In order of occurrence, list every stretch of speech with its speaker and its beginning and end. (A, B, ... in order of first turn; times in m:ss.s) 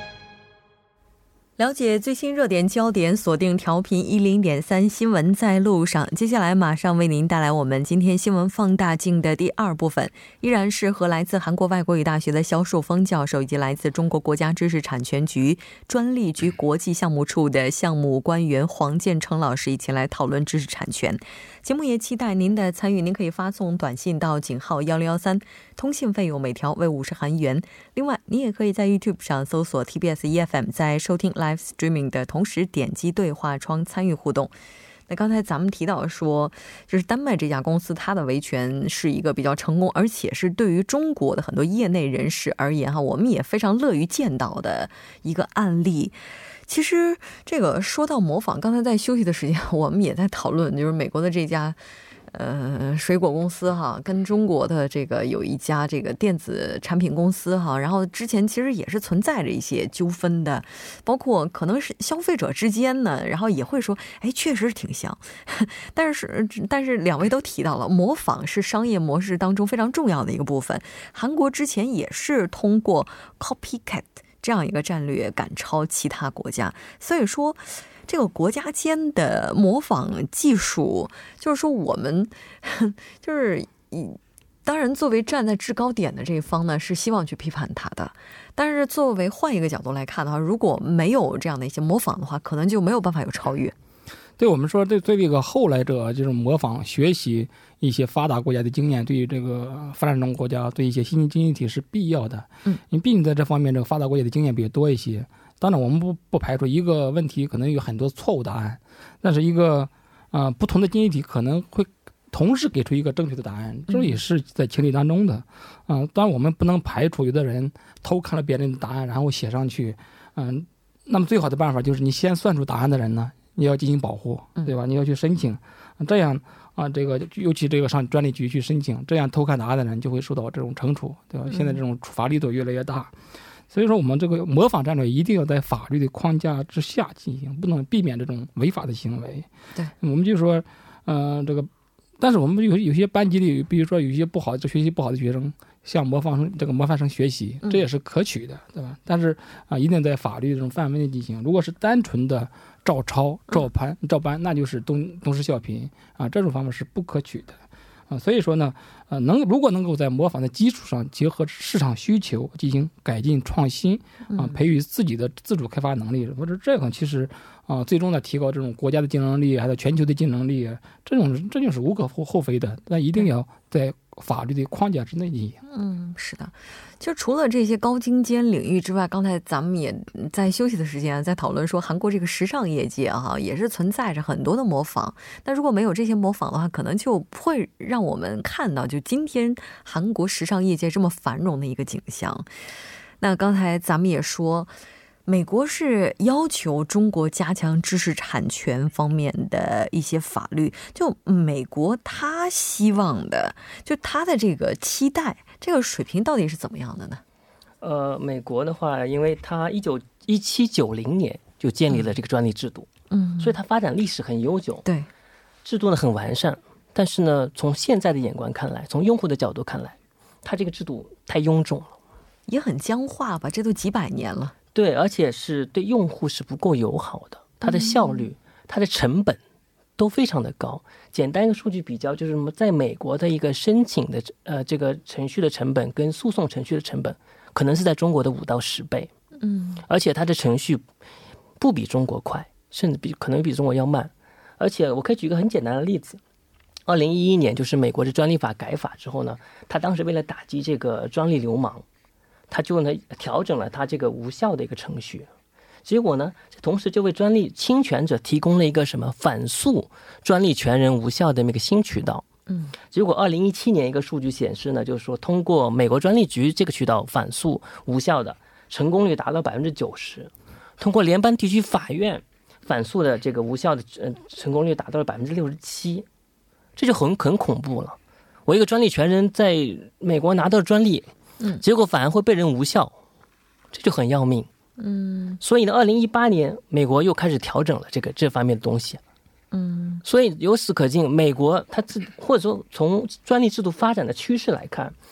0:01.6-0:34.5 A
0:35.1-0:51.8 A
0:52.3-1:33.8 A
1:34.4-2:13.1 B
1:53.9-1:54.2 A
2:11.5-2:11.8 A
2:13.7-2:19.5 B
2:20.0-2:21.7 B
2:22.2-2:37.6 B
2:38.1-2:55.6 B
2:44.3-2:44.6 A
2:55.7-3:12.5 A
3:13.2-3:14.7 A
3:15.2-3:27.2 A
3:27.8-3:34.8 C
3:31.9-3:32.1 A
3:33.1-3:33.5 A
3:35.6-3:42.0 C
3:42.5-3:44.5 A
3:44.8-3:49.4 C
3:47.6-3:48.2 A
3:50.0-3:59.1 C
3:59.4-3:59.8 A
3:59.9-4:00.8 C
4:01.6-4:06.2 C
4:06.9-4:11.8 C
4:12.5-4:15.3 C
4:15.8-4:22.2 C
4:22.9-4:36.1 C
4:36.8-4:41.1 C
4:41.6-4:43.0 C
4:43.7-4:44.5 C
4:44.8-4:45.4 A
4:45.4-4:49.0 C
4:49.5-4:50.0 A
4:50.0-4:54.9 C